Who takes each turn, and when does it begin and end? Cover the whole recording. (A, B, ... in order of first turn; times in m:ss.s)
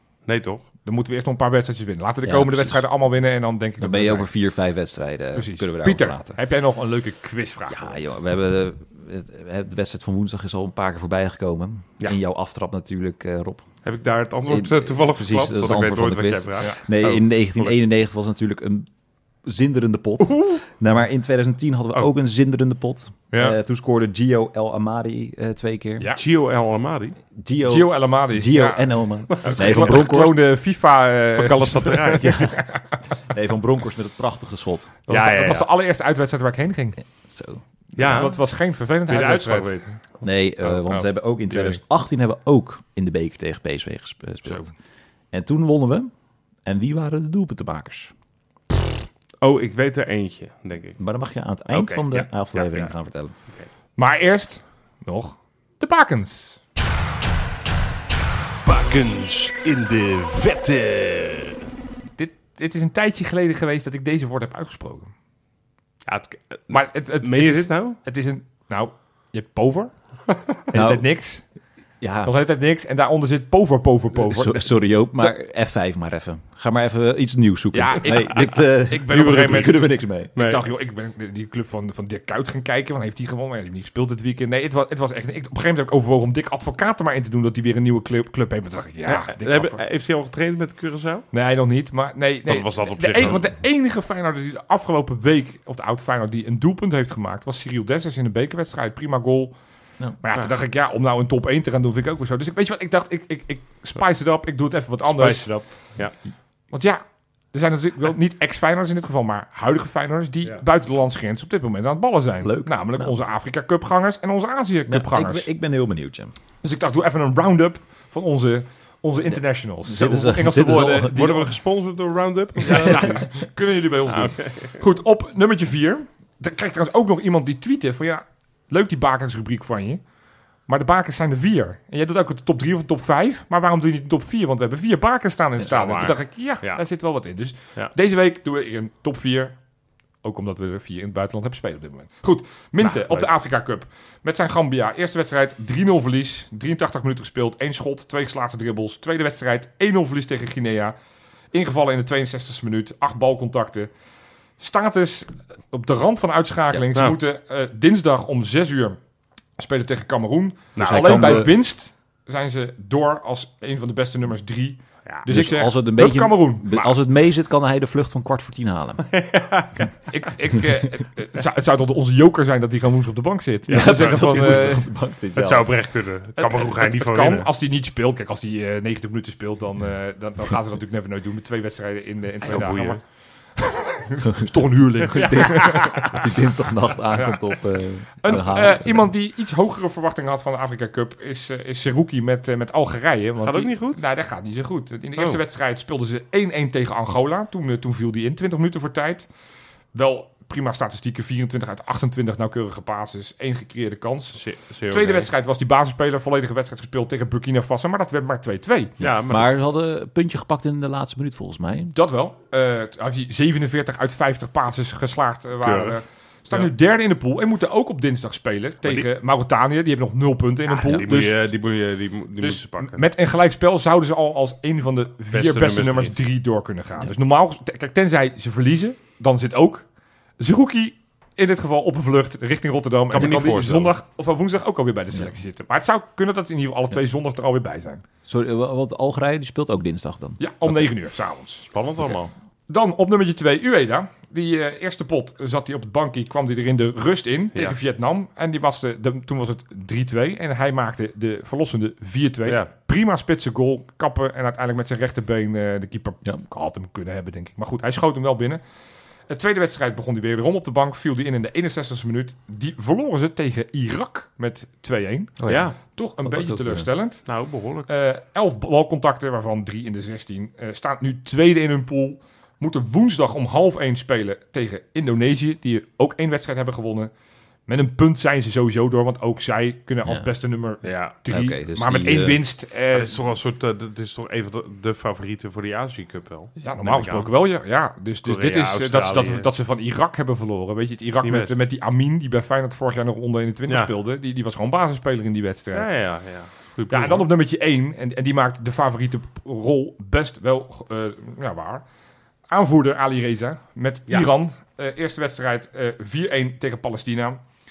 0:00.2-0:00.6 A
0:00.8-0:04.3 B
0:02.2-0:02.9 C
0:03.8-0:06.4 C
0:05.3-0:08.2 B
0:07.7-0:13.7 C
0:13.8-0:17.8 A
0:14.4-0:18.9 C
0:19.4-0:26.1 C
0:26.2-0:27.2 A
0:27.3-0:30.4 C
0:27.6-0:32.8 B
0:29.4-0:30.0 A
0:31.3-0:32.5 A
0:32.2-0:32.6 C
0:33.3-0:35.0 C
0:35.1-0:37.0 B
0:35.1-0:35.7 A
0:37.0-0:37.6 C
0:37.9-0:39.8 B
0:38.0-0:38.4 A
0:39.1-0:40.2 A
0:40.2-0:44.7 C
0:40.9-0:41.8 B
0:45.3-0:46.1 C
0:46.6-0:48.1 C
0:49.4-0:51.0 A
0:51.0-0:53.3 C
0:51.7-0:52.9 A
0:54.0-0:56.6 B
0:58.6-1:01.6 A
1:02.2-1:05.1 B
1:06.0-1:08.0 A
1:06.7-1:09.9 B
1:10.7-1:11.4 B
1:10.7-1:11.1 C
1:12.0-1:12.3 C
1:12.2-1:15.3 B
1:14.1-1:20.3 C
1:17.7-1:29.8 B
1:19.1-1:19.7 A
1:20.4-1:20.6 A
1:29.0-1:31.3 A
1:31.3-1:39.5 B
1:32.4-1:33.5 A
1:40.2-1:45.6 B
1:45.0-1:46.1 A
1:46.7-1:47.0 B
1:47.5-1:55.5 B
1:52.4-1:53.1 C
1:54.9-1:56.3 C
1:56.6-2:01.5 B
1:59.3-2:01.4 C
2:01.1-2:03.2 A
2:02.6-2:10.0 B
2:02.7-2:03.2 C
2:04.1-2:04.8 A
2:10.7-2:19.5 B
2:15.6-2:16.8 A
2:20.2-2:30.9 B
2:22.8-2:23.3 A
2:31.5-2:33.9 B
2:34.6-2:39.0 B
2:39.6-2:46.9 B
2:40.8-2:41.5 A
2:40.8-2:41.6 C
2:45.2-2:49.2 C
2:49.1-2:49.9 A
2:50.1-2:54.8 B
2:53.7-2:54.8 A
2:53.7-2:55.7 C
2:55.3-2:57.5 A
2:56.4-3:03.0 B
3:02.4-3:03.0 A
3:03.6-3:06.2 B
3:05.1-3:09.1 C
3:05.2-3:05.5 A
3:07.1-3:07.6 B
3:08.2-3:19.3 B
3:13.4-3:14.0 A
3:19.9-3:28.9 B
3:24.3-3:25.3 A
3:29.0-3:29.6 A
3:29.3-3:32.0 C
3:31.9-3:41.4 B
3:35.6-3:36.0 A
3:40.7-3:43.1 A
3:42.4-3:49.8 B
3:45.3-3:46.1 A
3:50.4-3:58.0 B
3:53.1-3:53.9 A
3:58.3-4:00.7 C
4:00.4-4:01.7 B
4:01.7-4:02.3 A
4:02.7-4:18.6 B
4:19.3-4:25.4 B
4:25.4-4:26.9 C
4:25.5-4:25.8 A
4:25.9-4:27.2 B
4:27.2-4:27.9 A
4:27.9-4:37.1 B
4:37.7-4:43.1 B
4:40.8-4:41.2 A
4:41.3-4:42.4 C
4:42.9-4:47.3 A
4:46.6-4:55.9 B
4:48.2-4:49.5 A
4:51.2-4:51.6 A
4:55.7-4:57.3 A
4:56.9-5:01.8 B
5:02.5-5:07.4 B